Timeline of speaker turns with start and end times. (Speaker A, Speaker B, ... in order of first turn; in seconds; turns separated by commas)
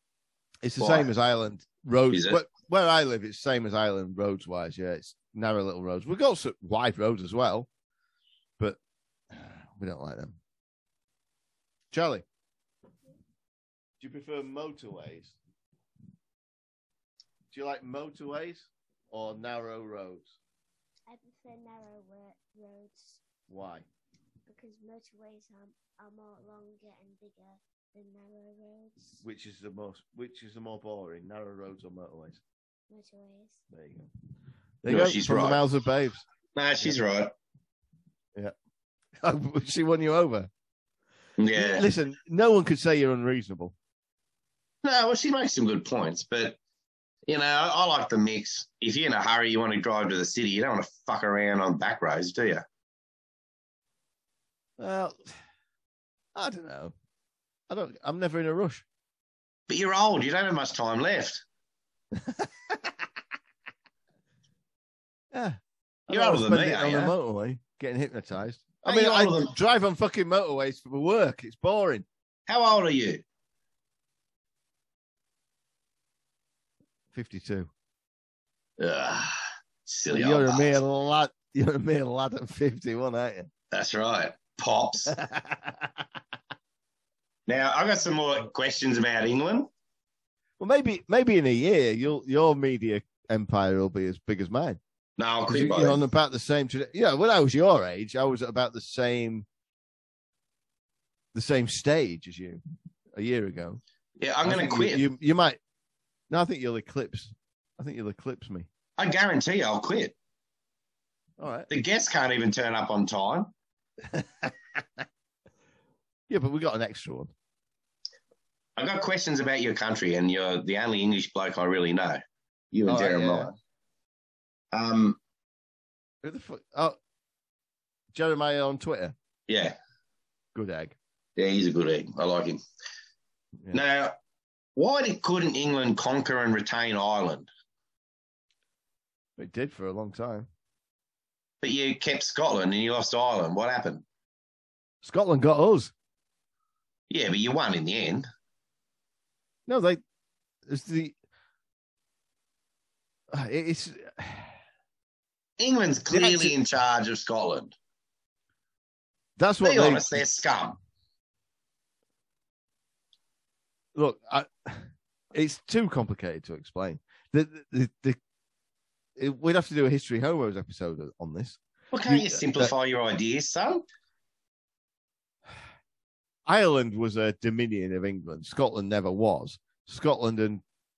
Speaker A: 0.6-7.7, Speaker B: 0.8-1.1, Speaker B: 2.1-2.4, Speaker A: 9.3-10.4, Speaker A: 11.9-12.2, Speaker A: 14.0-15.4, Speaker A: 17.5-20.4, Speaker C: 21.1-23.2, Speaker A: 23.5-23.9, Speaker C: 24.5-29.2, Speaker A: 29.2-32.4, Speaker C: 32.9-33.6, Speaker A: 33.7-34.1, Speaker A: 34.8-36.2, Speaker B: 34.9-35.6, Speaker B: 36.5-37.3, Speaker A: 39.2-40.5, Speaker B: 41.4-41.9, Speaker A: 41.5-43.8, Speaker B: 44.8-46.6, Speaker B: 47.3-52.6, Speaker A: 54.8-55.3, Speaker A: 56.4-56.9, Speaker A: 57.7-58.9, Speaker B: 59.7-61.4, Speaker A: 62.1-62.9, Speaker A: 65.3-72.1, Speaker B: 66.1-67.2, Speaker B: 68.8-69.5, Speaker B: 72.5-73.2, Speaker A: 77.1-77.7, Speaker B: 78.8-80.8, Speaker A: 80.1-83.5, Speaker B: 83.7-85.1, Speaker A: 85.1-86.0, Speaker B: 87.5-89.7, Speaker A: 90.6-94.8, Speaker B: 95.2-96.0, Speaker A: 95.5-99.5, Speaker A: 101.3-102.6, Speaker A: 103.2-103.8, Speaker B: 104.2-105.0, Speaker A: 104.5-105.6, Speaker A: 106.3-108.7, Speaker B: 109.0-110.2, Speaker A: 111.4-111.7, Speaker B: 111.7-113.5, Speaker A: 114.1-114.8, Speaker A: 116.3-117.3, Speaker B: 118.8-122.2, Speaker B: 122.7-123.5, Speaker A: 122.9-123.5, Speaker B: 124.7-125.2, Speaker A: 126.2-127.0, Speaker A: 128.1-129.2, Speaker B: 129.5-129.8, Speaker A: 130.6-131.0, Speaker B: 131.4-132.6, Speaker B: 133.7-134.2, Speaker B: 134.8-137.5, Speaker A: 139.4-140.5, Speaker B: 141.6-144.0, Speaker A: 145.0-145.9, Speaker B: 147.1-148.3, Speaker A: 149.7-150.0, Speaker A: 150.7-151.2, Speaker A: 153.3-154.5, Speaker B: 155.6-157.7, Speaker A: 156.1-156.6, Speaker A: 159.4-160.1, Speaker B: 159.6-160.8, Speaker A: 163.9-168.2, Speaker A: 169.2-172.7, Speaker B: 171.9-173.8, Speaker A: 176.5-180.6